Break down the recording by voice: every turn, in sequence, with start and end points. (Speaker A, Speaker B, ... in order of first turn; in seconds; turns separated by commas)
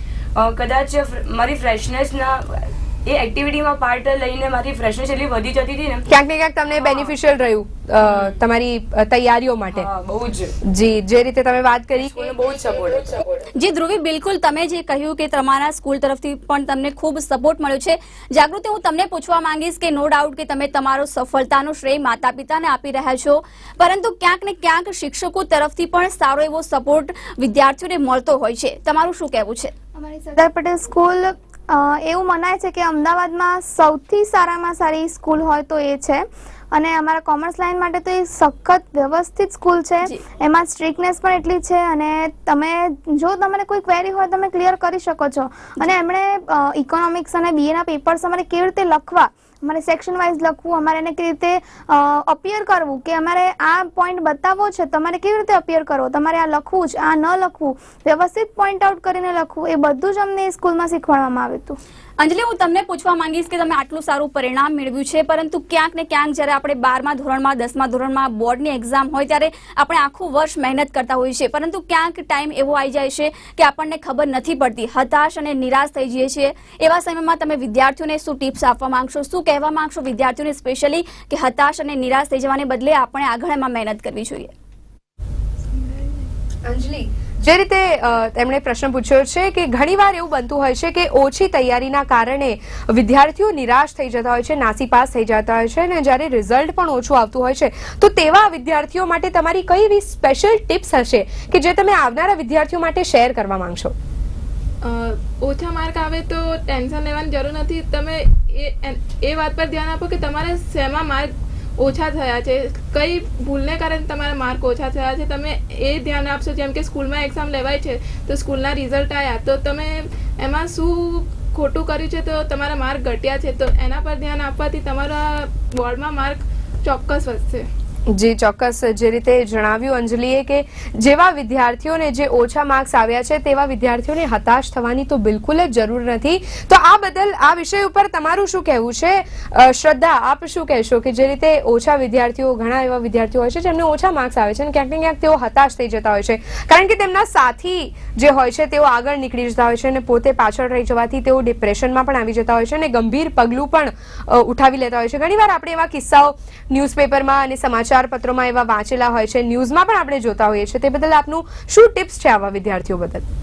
Speaker A: 0.3-6.1, Speaker B: 6.1-9.9, Speaker A: 6.8-7.1, Speaker A: 8.0-8.4, Speaker A: 9.7-10.6, Speaker B: 10.6-12.3, Speaker A: 12.0-13.5, Speaker C: 13.6-29.7, Speaker D: 29.9-61.8, Speaker C: 62.2-84.5, Speaker E: 85.7-86.2, Speaker B: 86.6-103.9, Speaker E: 104.8-127.7, Speaker B: 128.1-163.2